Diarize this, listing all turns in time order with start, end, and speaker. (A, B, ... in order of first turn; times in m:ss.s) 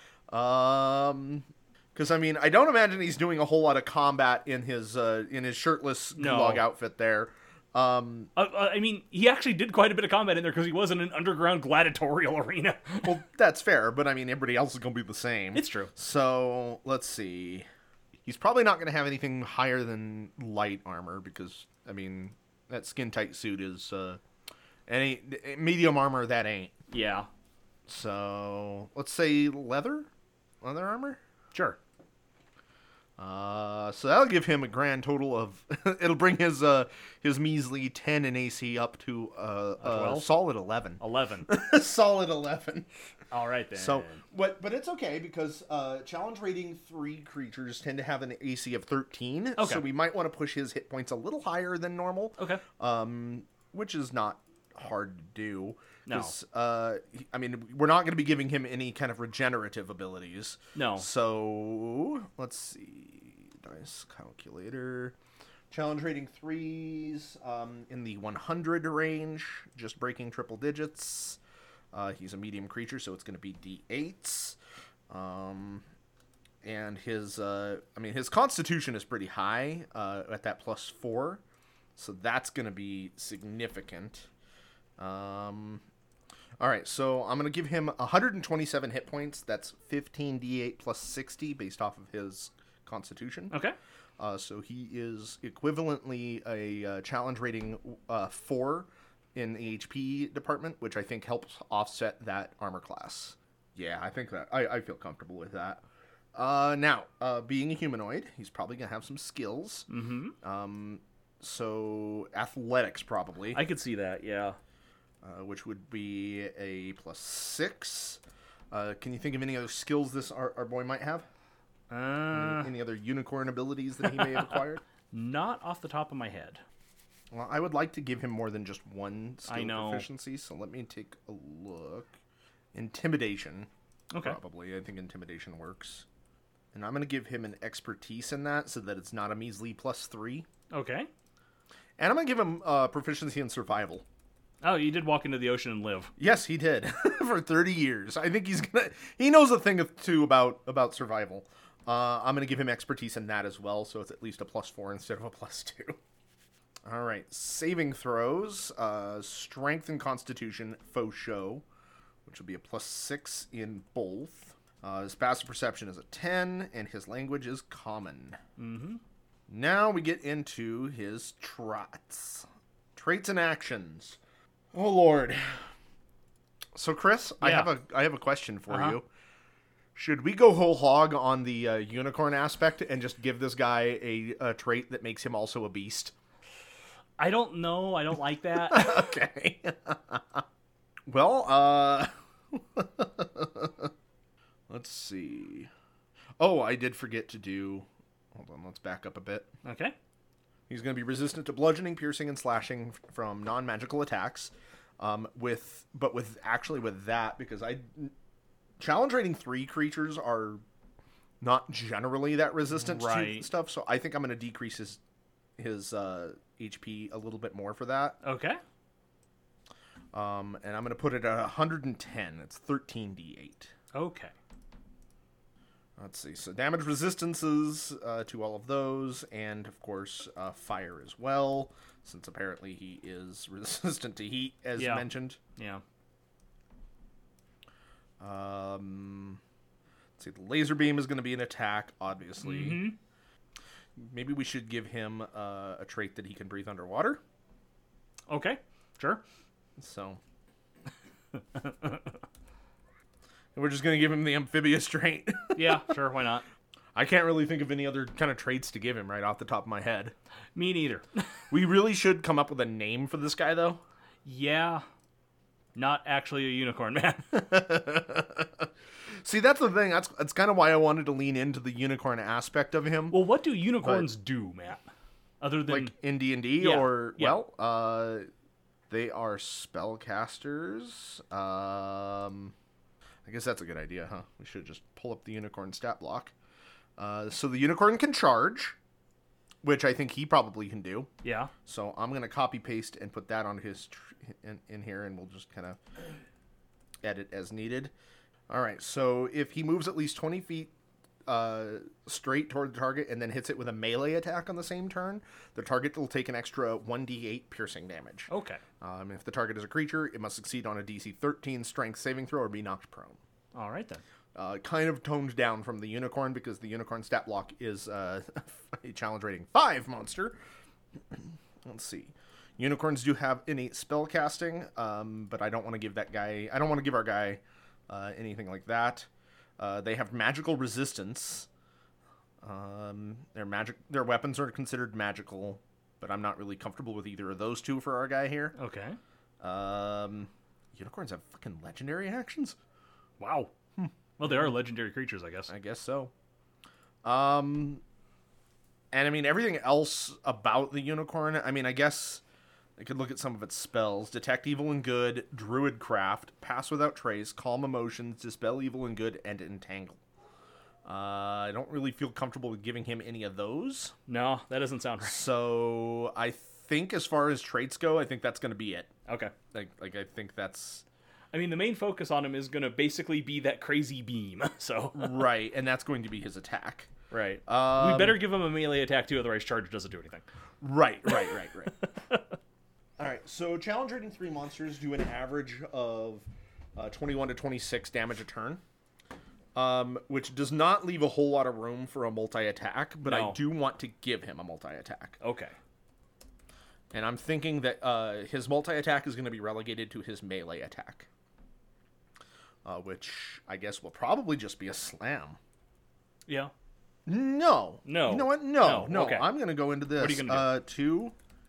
0:00.3-0:08.3 A
0:06.2-0:06.6 B
0:08.4-0:13.2 B
0:13.0-0:17.7 A
0:15.5-0:15.9 B
0:18.2-0:24.2 A
0:24.9-0:26.7 A
0:26.9-0:27.3 B
0:27.9-0:30.1 A
0:30.6-0:31.2 A
0:31.5-0:31.8 B
0:33.2-0:42.9 A
0:39.8-0:40.3 B
0:41.0-0:41.5 B
0:43.3-0:44.2 B
0:43.7-1:05.1 A
0:49.6-0:49.8 B
0:52.4-0:52.6 B
0:56.1-0:56.3 B
1:00.7-1:01.0 B
1:05.7-1:11.4 A
1:11.9-1:14.6 A
1:15.1-1:15.8 A
1:16.6-1:21.4 A
1:22.0-1:24.3 A
1:25.0-1:25.8 A
1:26.6-1:33.6 A
1:34.2-1:45.8 A
1:46.3-1:49.9 A
1:49.9-1:50.3 B
1:50.4-1:53.6 A
1:53.5-1:54.6 B
1:55.2-1:58.2 A
1:58.7-2:01.2 A
2:01.9-2:02.7 B
2:02.3-2:04.8 A
2:05.1-2:06.6 B
2:07.3-2:12.1 A
2:09.5-2:10.0 B
2:12.7-2:16.0 A
2:14.1-2:14.4 B
2:16.7-2:20.5 A
2:20.7-2:21.1 B
2:22.0-2:24.0 A
2:24.6-2:26.1 B
2:26.2-2:36.0 A
2:36.8-2:41.6 A
2:42.2-2:48.4 A
2:48.6-2:49.0 B
2:49.5-2:54.2 A
2:54.7-2:55.6 A
2:56.7-2:59.0 A
2:57.4-2:57.7 B
2:58.7-2:59.0 B
2:59.9-3:06.1 A
3:07.2-3:09.0 B
3:08.7-3:10.4 A
3:11.1-3:13.9 A
3:14.7-3:15.7 A
3:16.4-3:19.5 A
3:19.6-3:19.9 B
3:20.7-3:28.1 A
3:28.8-3:30.6 A
3:31.4-3:35.0 A
3:32.8-3:33.5 B
3:35.6-3:38.2 A
3:38.2-3:38.6 B
3:40.1-3:43.7 A
3:43.9-3:44.3 B
3:46.0-3:55.4 A
3:54.8-3:55.8 B
3:58.2-3:59.4 A
4:00.2-4:02.8 A
4:02.4-4:03.0 B
4:04.0-4:07.2 A
4:08.3-4:09.2 B
4:09.8-4:10.2 A
4:11.5-4:12.1 B
4:13.5-4:15.8 A
4:15.5-4:16.4 B
4:16.9-4:20.1 A
4:20.5-4:21.2 B
4:21.5-4:23.8 A
4:24.2-4:24.8 B
4:25.7-4:27.4 B
4:27.3-4:28.7 A
4:29.2-4:33.2 A
4:33.1-4:34.8 B
4:33.8-4:34.1 A
4:35.4-4:35.9 B
4:35.7-4:38.3 A
4:36.6-4:37.4 B
4:38.9-4:42.5 A
4:43.2-4:46.3 A
4:47.0-4:48.8 A
4:49.6-4:51.1 A
4:51.2-4:51.5 B
4:51.6-4:55.8 A
4:57.0-4:57.9 A
4:58.5-5:00.7 A
5:01.2-5:08.3 A
5:08.3-5:08.6 B
5:08.8-5:13.2 A
5:13.5-5:14.0 B
5:14.3-5:20.4 A
5:21.1-5:29.1 A
5:29.6-5:31.5 A
5:32.4-5:38.5 A
5:38.6-5:39.0 B
5:39.4-5:42.6 A
5:43.2-5:43.5 B
5:43.8-5:44.5 A
5:44.2-5:45.5 B
5:45.5-5:46.1 A
5:47.0-5:47.8 A
5:48.9-5:52.2 A
5:52.8-6:00.0 A
6:00.8-6:03.9 A
6:04.1-6:05.2 B
6:05.0-6:08.9 A
6:09.1-6:09.3 B
6:09.5-6:10.8 A
6:11.3-6:15.2 B
6:14.9-6:16.9 A
6:17.1-6:20.2 B
6:17.5-6:18.2 A
6:20.6-6:21.7 A
6:21.8-6:22.3 B
6:23.0-6:28.6 A
6:29.5-6:35.2 A
6:33.0-6:33.4 B
6:35.2-6:35.5 B
6:36.9-6:41.1 A
6:42.6-6:45.4 A
6:46.3-6:46.5 B
6:47.0-6:51.1 A
6:47.8-6:49.3 B
6:50.0-6:50.5 B